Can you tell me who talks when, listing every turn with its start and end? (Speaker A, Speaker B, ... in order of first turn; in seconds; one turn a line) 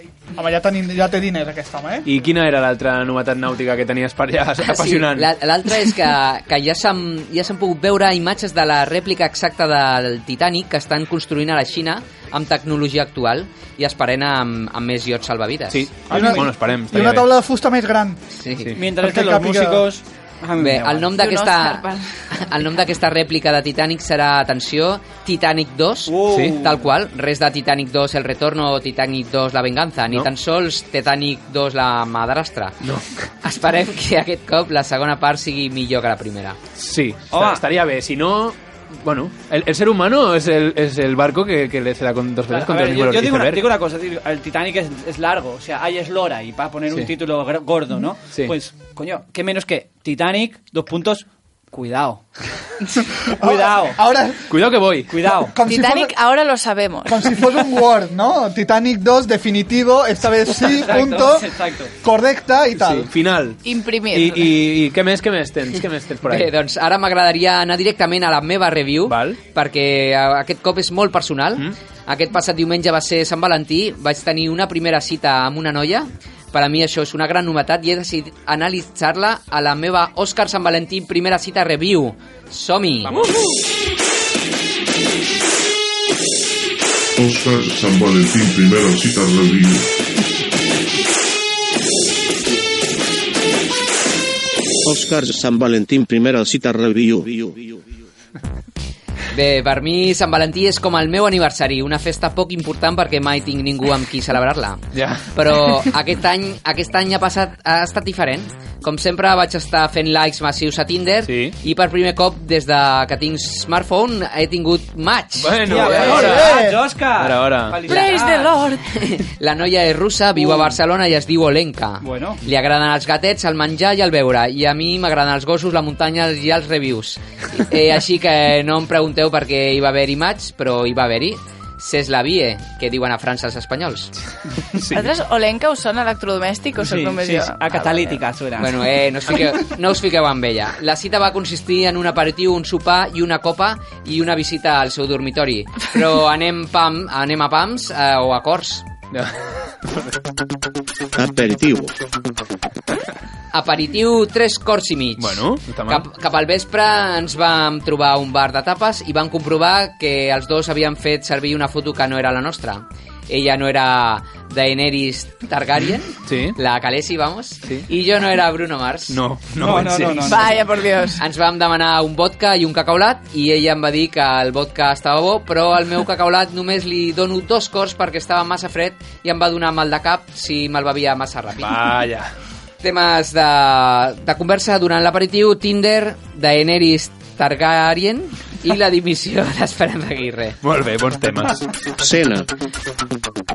Speaker A: 0.4-2.1
Speaker B: 2.0-5.3
Speaker C: 4.6-15.9
Speaker B: 15.7-17.3
Speaker A: 16.1-18.2
Speaker D: 16.1-16.4
Speaker C: 18.3-18.8
Speaker D: 18.7-21.1
Speaker A: 18.9-19.9
Speaker C: 20.6-32.8
Speaker E: 21.2-22.1
Speaker D: 26.1-26.9
Speaker B: 26.3-26.6
Speaker B: 32.8-33.2
Speaker C: 33.4-36.6
Speaker B: 36.8-43.7
Speaker D: 37.3-37.6
Speaker D: 42.5-52.2
Speaker A: 53.2-54.5
Speaker D: 53.3-54.0
Speaker B: 54.5-55.3
Speaker D: 55.1-55.5
Speaker A: 55.4-56.1
Speaker E: 55.6-57.4
Speaker A: 57.1-63.1
Speaker D: 60.6-61.9
Speaker B: 62.8-66.5
Speaker E: 63.6-64.5
Speaker C: 66.3-83.3
Speaker B: 69.1-69.4
Speaker B: 83.1-83.5
Speaker F: 87.2-89.9
Speaker G: 94.8-97.8
Speaker C: 99.3-116.2
Speaker B: 104.9-105.3
Speaker B: 111.2-111.6
Speaker B: 115.4-116.6
Speaker D: 115.6-118.5
Speaker A: 116.2-116.8
Speaker B: 117.2-117.8
Speaker E: 117.9-118.9
Speaker C: 118.9-134.1
Speaker D: 120.4-120.7
Speaker D: 122.0-122.4
Speaker B: 134.8-135.1
Speaker E: 134.9-137.6
Speaker D: 136.8-138.9
Speaker C: 137.7-148.9
Speaker B: 149.1-149.4
Speaker G: 151.2-151.9
Speaker C: 153.5-169.2
Speaker B: 155.2-156.1
Speaker B: 166.2-166.6
Speaker B: 169.1-170.5
Speaker D: 169.6-170.6
Speaker E: 170.2-171.2
Speaker C: 171.2-181.9
Speaker B: 181.6-182.3
Speaker C: 182.8-190.6
Speaker B: 190.6-191.7
Speaker G: 192.0-192.5